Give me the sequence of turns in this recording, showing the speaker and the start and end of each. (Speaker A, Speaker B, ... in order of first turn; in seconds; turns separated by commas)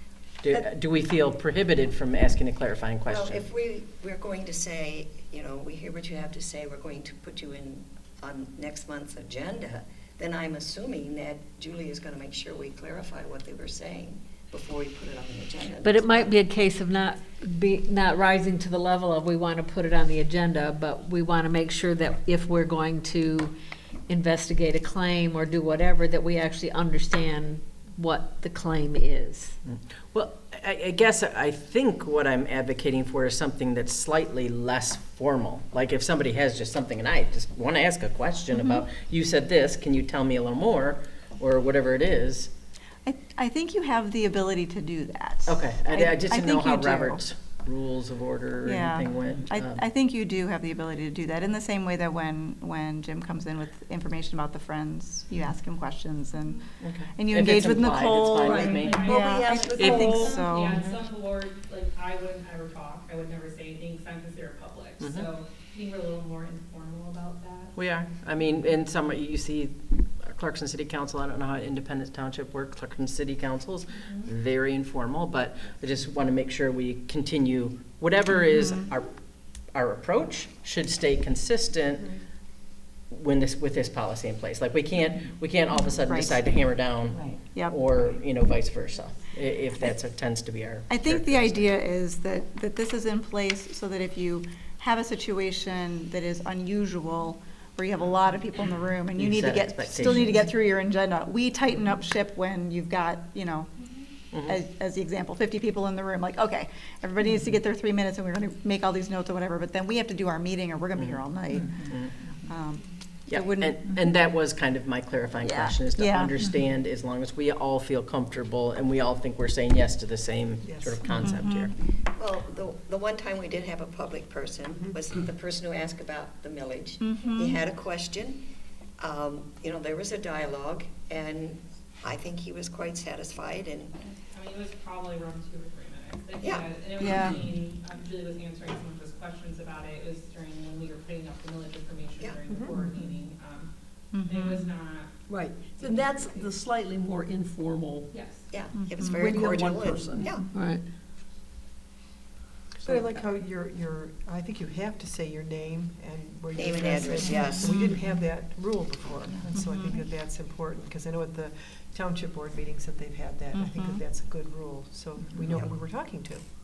Speaker A: 0.4-3.4, Speaker B: 3.1-16.4, Speaker C: 15.8-23.5, Speaker C: 24.1-29.6, Speaker A: 29.7-42.5, Speaker D: 38.5-38.8, Speaker D: 43.0-47.2, Speaker A: 45.5-49.8, Speaker D: 48.6-60.8, Speaker A: 56.8-59.1, Speaker E: 58.4-60.4, Speaker F: 58.8-67.7, Speaker A: 59.8-61.0, Speaker A: 65.0-65.3, Speaker A: 67.8-79.2, Speaker A: 79.7-82.2, Speaker A: 83.1-91.7, Speaker D: 86.0-86.4, Speaker D: 90.9-103.8, Speaker A: 99.2-100.5, Speaker A: 104.3-104.6, Speaker D: 104.4-111.9, Speaker A: 111.0-112.1, Speaker D: 112.5-113.8, Speaker A: 113.3-121.7, Speaker D: 115.4-116.3, Speaker G: 120.6-121.1, Speaker D: 121.2-121.7, Speaker B: 121.9-128.5, Speaker D: 127.0-127.6, Speaker B: 129.0-134.0, Speaker F: 134.0-143.7, Speaker B: 136.4-136.7, Speaker D: 137.0-137.4, Speaker G: 142.6-142.9, Speaker D: 144.1-144.7, Speaker F: 144.2-146.5, Speaker E: 145.3-148.2, Speaker F: 148.1-148.5, Speaker B: 148.5-150.5, Speaker D: 148.8-149.4, Speaker E: 149.0-150.3, Speaker C: 150.5-150.8, Speaker G: 152.8-166.4, Speaker E: 152.9-153.2, Speaker B: 156.6-157.9, Speaker D: 163.5-164.0